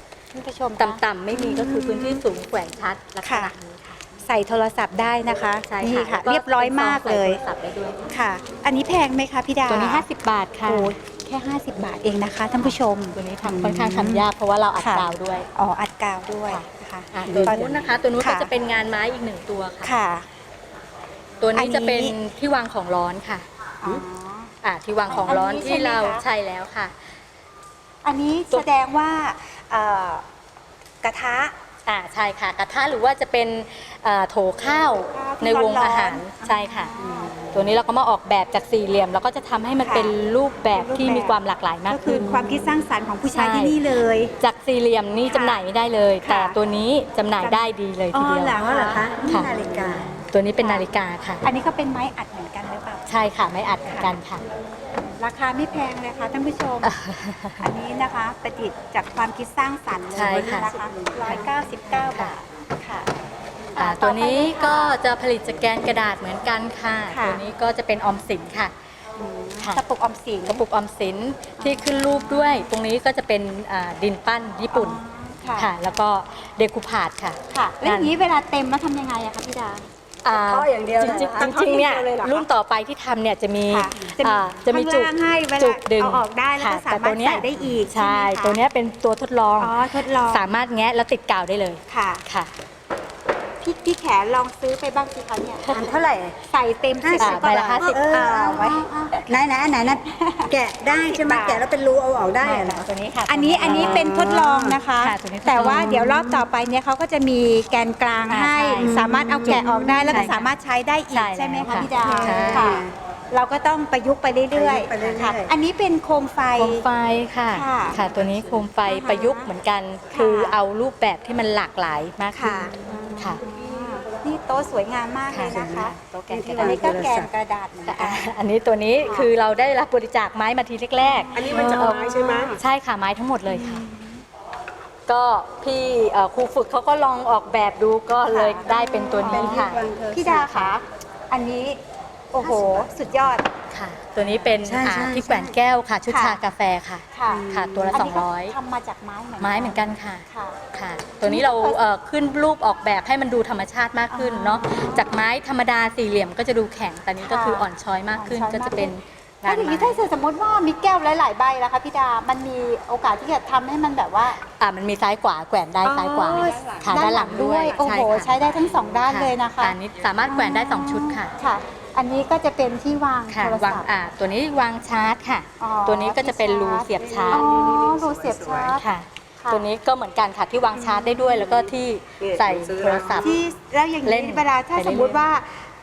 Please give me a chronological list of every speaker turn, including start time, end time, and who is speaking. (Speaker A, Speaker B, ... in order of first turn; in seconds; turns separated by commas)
Speaker A: 0.3-2.2, Speaker B: 0.8-4.0, Speaker A: 3.2-3.5, Speaker A: 4.1-7.4, Speaker B: 5.6-8.1, Speaker A: 8.1-10.1, Speaker B: 9.7-10.9, Speaker A: 10.7-14.3, Speaker B: 12.6-15.5, Speaker A: 14.8-18.5, Speaker B: 16.5-20.0, Speaker A: 19.8-20.3, Speaker B: 21.4-24.0, Speaker A: 21.6-22.1, Speaker A: 23.8-24.5, Speaker B: 24.6-26.9, Speaker A: 25.1-26.2, Speaker A: 28.0-30.3, Speaker A: 31.0-31.6, Speaker B: 31.9-36.9, Speaker A: 35.1-37.4, Speaker C: 37.0-37.5, Speaker B: 37.5-42.6, Speaker A: 39.8-40.1, Speaker A: 40.7-41.4, Speaker A: 41.9-44.3, Speaker B: 43.3-43.8, Speaker B: 44.4-48.6, Speaker A: 45.3-45.6, Speaker A: 46.2-46.6, Speaker A: 47.4-49.1, Speaker C: 48.5-50.2, Speaker B: 49.2-51.4, Speaker A: 51.4-53.1, Speaker B: 53.1-54.4, Speaker A: 53.9-54.1, Speaker A: 55.0-56.9, Speaker B: 56.8-57.7, Speaker A: 57.6-63.1, Speaker B: 60.1-60.7, Speaker C: 60.3-61.1, Speaker B: 62.0-62.3, Speaker A: 63.7-65.0, Speaker B: 63.8-68.7, Speaker A: 67.1-67.4, Speaker A: 69.2-70.6, Speaker B: 70.5-75.0, Speaker A: 71.6-72.7, Speaker A: 74.7-75.7, Speaker B: 75.6-78.1, Speaker A: 77.5-79.9, Speaker B: 80.2-92.5, Speaker C: 80.3-82.5, Speaker A: 83.7-88.6, Speaker A: 89.6-90.5, Speaker A: 91.9-92.2, Speaker A: 93.6-95.7, Speaker C: 95.7-96.4, Speaker A: 96.5-99.3, Speaker C: 97.0-102.9, Speaker B: 97.2-98.0, Speaker A: 100.2-101.7, Speaker B: 102.4-104.4, Speaker A: 103.3-116.8, Speaker C: 103.6-104.8, Speaker B: 105.0-106.4, Speaker B: 108.3-110.5, Speaker C: 108.8-110.3, Speaker B: 111.1-112.8, Speaker C: 111.7-112.9, Speaker C: 114.5-115.5, Speaker B: 116.6-123.4, Speaker A: 117.5-118.0, Speaker A: 118.9-119.5, Speaker A: 120.1-120.6, Speaker A: 122.3-128.3, Speaker B: 125.3-127.1, Speaker C: 126.4-127.3, Speaker B: 127.9-133.9, Speaker A: 129.0-129.3, Speaker A: 131.0-132.5, Speaker C: 131.3-132.6, Speaker A: 133.5-134.2, Speaker B: 135.1-139.8, Speaker A: 138.2-141.8, Speaker C: 139.2-140.7, Speaker B: 140.5-140.7, Speaker A: 142.3-143.5, Speaker C: 142.4-142.9, Speaker B: 143.7-148.6, Speaker C: 144.6-145.6, Speaker A: 146.1-146.4, Speaker A: 147.1-150.6, Speaker C: 147.3-147.9, Speaker B: 149.4-160.0, Speaker A: 151.2-151.8, Speaker A: 154.1-155.2, Speaker A: 157.2-158.9, Speaker A: 159.4-164.4, Speaker B: 164.4-168.4, Speaker A: 165.8-173.9, Speaker C: 166.8-167.0, Speaker B: 169.1-171.3, Speaker B: 173.3-177.5, Speaker A: 175.6-178.8, Speaker C: 177.0-178.8, Speaker B: 178.8-183.4, Speaker A: 180.7-181.3, Speaker C: 181.4-181.7, Speaker C: 182.2-183.4, Speaker A: 183.2-185.7, Speaker B: 184.0-185.2